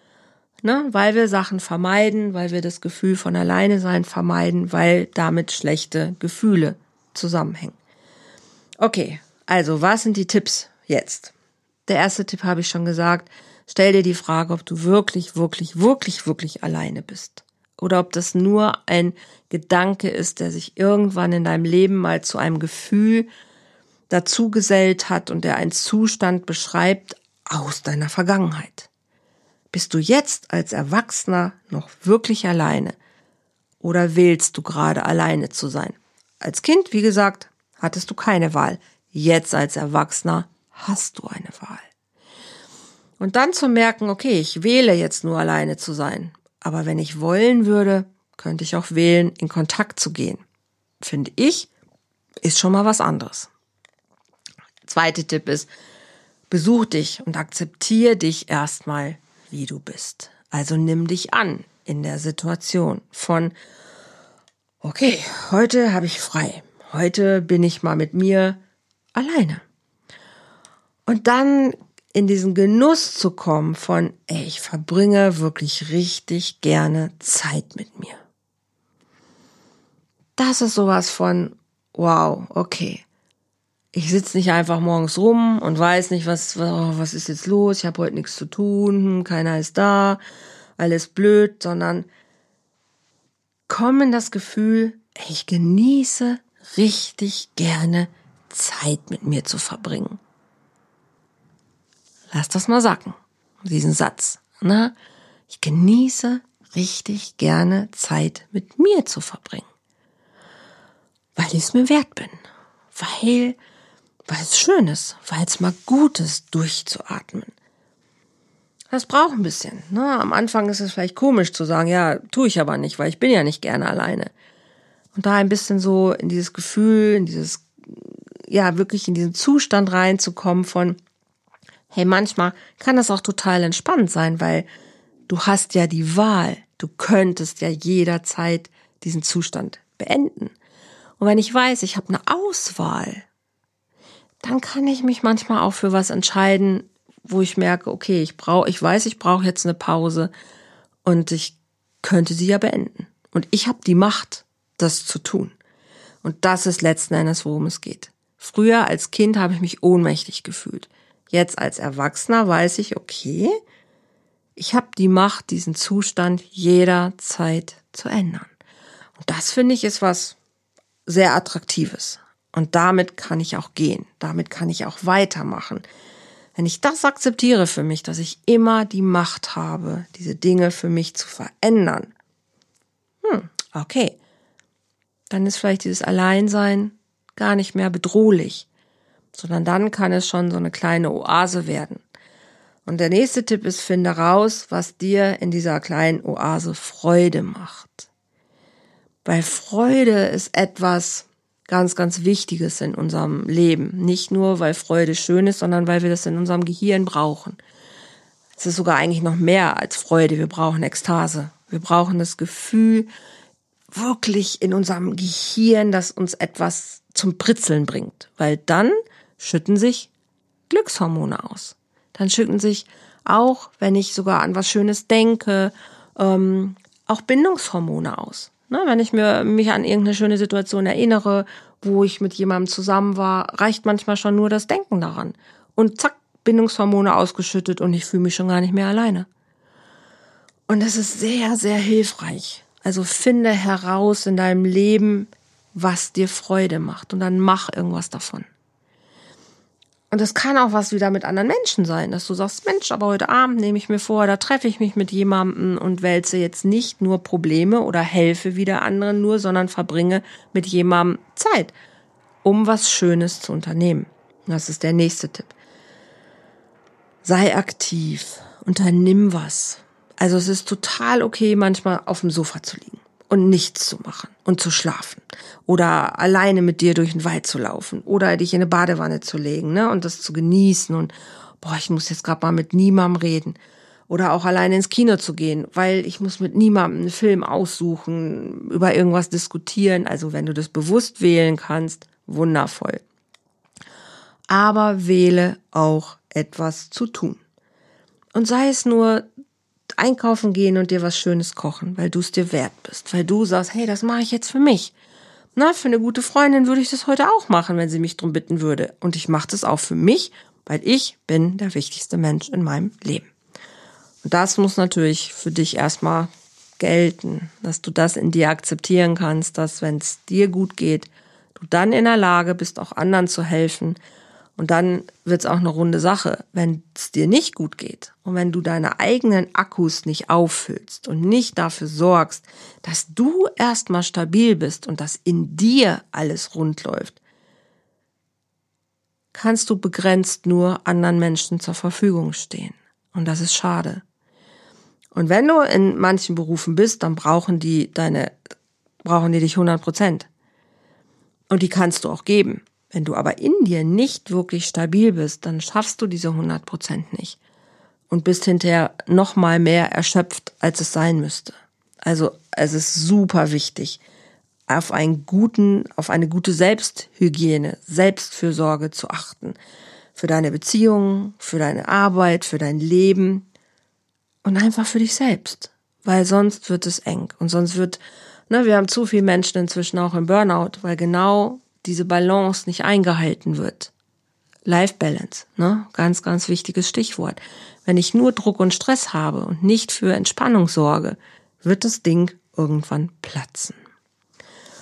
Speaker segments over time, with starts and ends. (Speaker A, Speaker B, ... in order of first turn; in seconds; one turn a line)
Speaker A: 0.6-7.8
Speaker A: 8.8-11.3
Speaker A: 11.9-23.3
Speaker A: 24.1-28.9
Speaker A: 29.7-33.0
Speaker A: 33.8-41.9
Speaker A: 43.2-50.4
Speaker A: 51.0-51.7
Speaker A: 52.4-53.5
Speaker A: 54.8-55.7
Speaker A: 56.5-63.5
Speaker A: 64.8-68.6
Speaker A: 69.1-69.6
Speaker A: 71.1-78.2
Speaker A: 80.4-83.0
Speaker A: 83.9-90.2
Speaker A: 90.8-92.1
Speaker A: 93.7-100.2
Speaker A: 102.3-104.9
Speaker A: 105.5-109.7
Speaker A: 111.3-112.4
Speaker A: 112.9-113.6
Speaker A: 114.3-117.5
Speaker A: 118.9-124.3
Speaker A: 125.1-131.0
Speaker A: 131.9-134.7
Speaker A: 135.3-140.5
Speaker A: 141.2-143.3
Speaker A: 144.4-150.3
Speaker A: 151.0-155.5
Speaker A: 156.2-163.5
Speaker A: 164.6-168.5
Speaker A: 169.2-170.4
Speaker A: 171.1-175.8
Speaker A: 176.6-182.1
Speaker A: 183.2-184.2
Speaker A: 185.3-188.7
Speaker A: 189.3-192.0
Speaker A: 192.8-198.1
Speaker A: 199.2-207.6
Speaker A: 208.6-213.1
Speaker A: 213.9-220.1
Speaker A: 220.7-239.3
Speaker A: 240.7-248.5
Speaker A: 250.1-261.7
Speaker A: 262.4-265.5
Speaker A: 267.2-283.6
Speaker A: 284.1-293.0
Speaker A: 294.5-297.4
Speaker A: 298.3-299.2
Speaker A: 300.0-304.9
Speaker A: 305.6-313.3
Speaker A: 314.2-324.0
Speaker A: 324.6-337.2
Speaker A: 339.3-344.0
Speaker A: 345.1-348.3
Speaker A: 349.0-350.3
Speaker A: 351.5-357.4
Speaker A: 358.1-364.0
Speaker A: 364.7-369.6
Speaker A: 370.1-373.4
Speaker A: 374.4-383.9
Speaker A: 384.6-393.8